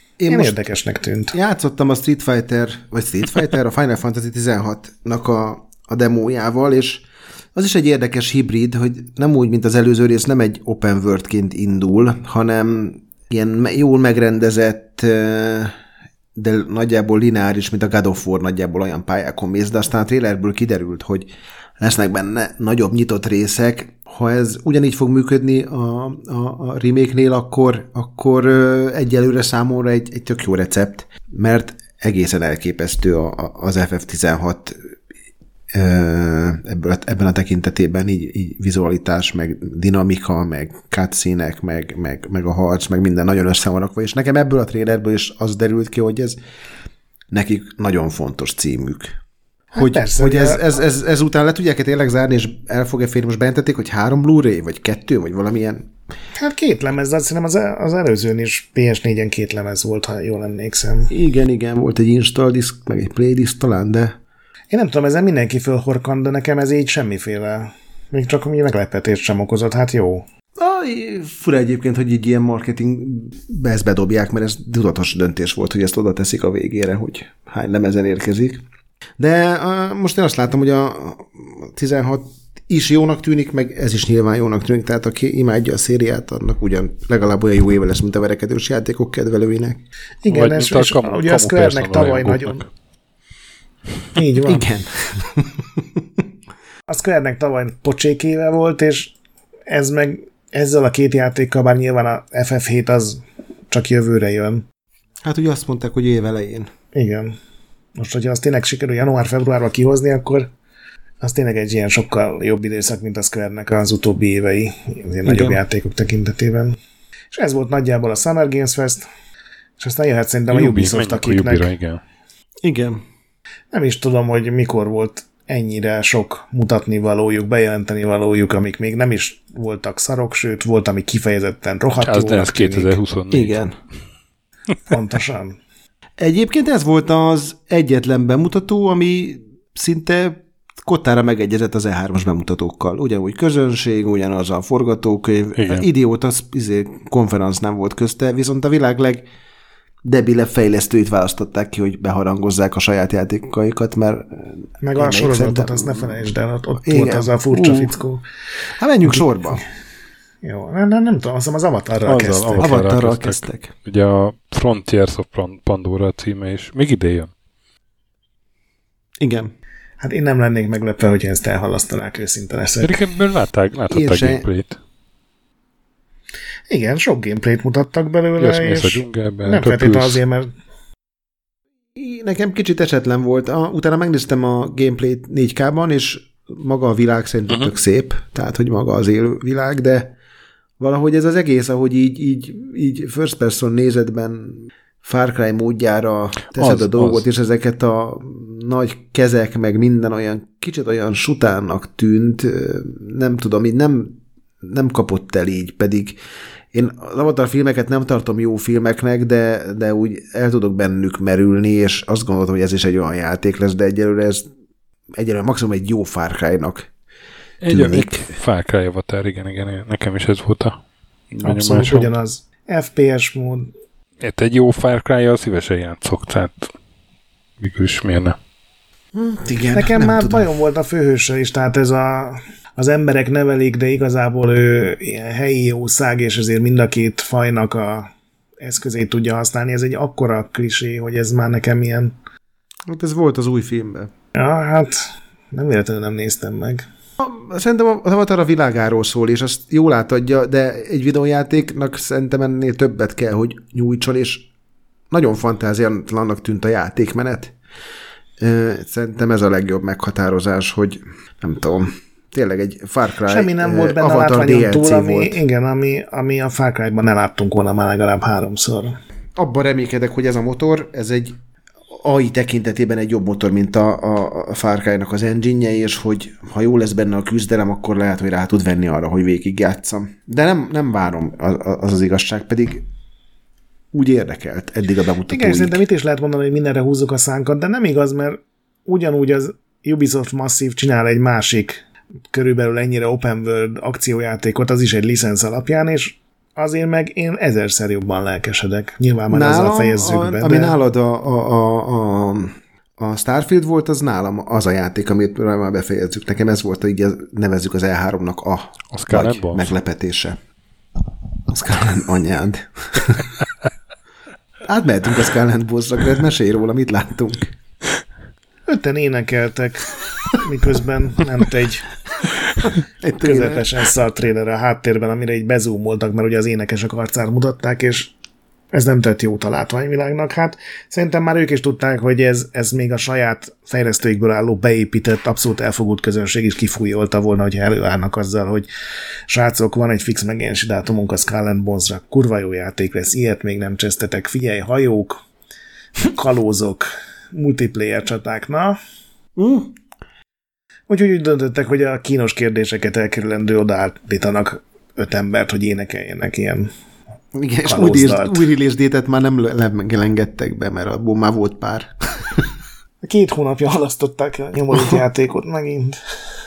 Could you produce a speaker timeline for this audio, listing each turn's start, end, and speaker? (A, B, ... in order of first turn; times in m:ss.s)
0:00.2-0:00.6 A
0:00.3-0:01.4 B
0:01.3-0:15.8 A
0:16.4-0:21.3 A
0:21.8-0:34.8 A
0:35.7-0:46.4 A
0:47.3-0:49.2 A
0:49.7-0:50.6 B
0:49.8-0:55.9 A
0:56.4-1:01.1 B
1:01.1-1:04.2 A
1:04.7-1:10.3 B
1:10.6-1:18.6 A
1:19.2-1:29.8 A
1:30.2-1:32.6 B
1:30.3-1:32.7 C
1:34.2-1:34.7 B
1:34.5-1:36.2 A
1:36.9-1:39.2 B
1:39.7-1:44.6 B
1:45.2-1:46.7 A
1:46.9-1:47.4 B
1:48.0-1:50.5 B
1:51.2-1:56.8 B
1:55.2-1:55.6 A
1:57.3-1:59.1 B
1:59.8-2:01.7 B
2:00.5-2:02.0 C
2:02.6-2:03.0 A
2:03.7-2:13.0 B
2:12.0-2:13.6 C
2:13.3-2:13.8 A
2:14.9-2:15.6 B
2:16.2-2:29.3 A
2:25.6-2:25.9 C
2:30.0-2:36.2 A
2:34.8-2:38.2 B
2:36.8-2:38.0 A
2:38.8-2:39.6 A
2:40.4-2:42.8 B
2:42.1-2:47.3 C
2:42.6-2:43.7 A
2:49.2-2:49.5 A
2:50.0-2:53.0 B
2:52.8-2:54.8 C
2:53.9-2:54.4 A
2:56.7-3:00.5 B
2:58.4-3:00.2 C
3:02.0-3:10.2 A
3:10.8-3:26.2 A
3:16.6-3:17.2 C
3:26.7-3:34.5 A
3:35.2-3:36.9 A
3:37.6-3:40.8 C
3:37.7-3:38.3 A
3:41.3-3:42.1 C
3:41.4-3:43.7 B
3:44.2-3:46.7 C
3:47.6-3:48.4 C
3:49.1-3:50.5 A
3:49.7-4:02.2 B
4:02.9-4:04.1 A
4:04.4-4:06.9 B
4:07.2-4:14.5 A
4:15.1-4:17.5 A
4:18.4-4:25.4 A
4:23.3-4:29.0 B
4:29.4-4:31.4 A
4:31.9-4:42.9 A
4:43.9-4:45.8 A
4:45.3-5:00.8 B
4:59.3-5:10.4 A
5:08.9-5:09.7 C
5:11.5-5:13.3 A
5:14.6-5:17.5 A
5:18.7-5:21.9 B
5:23.0-5:23.7 A
5:23.2-5:28.1 B
5:28.7-5:38.7 B
5:39.3-5:45.2 B
5:46.0-5:48.8 B
5:49.4-5:49.8 A
5:50.9-5:56.7 B
5:57.3-6:02.5 A
5:57.6-5:58.4 B
6:03.0-6:06.0 B
6:04.7-6:05.0 A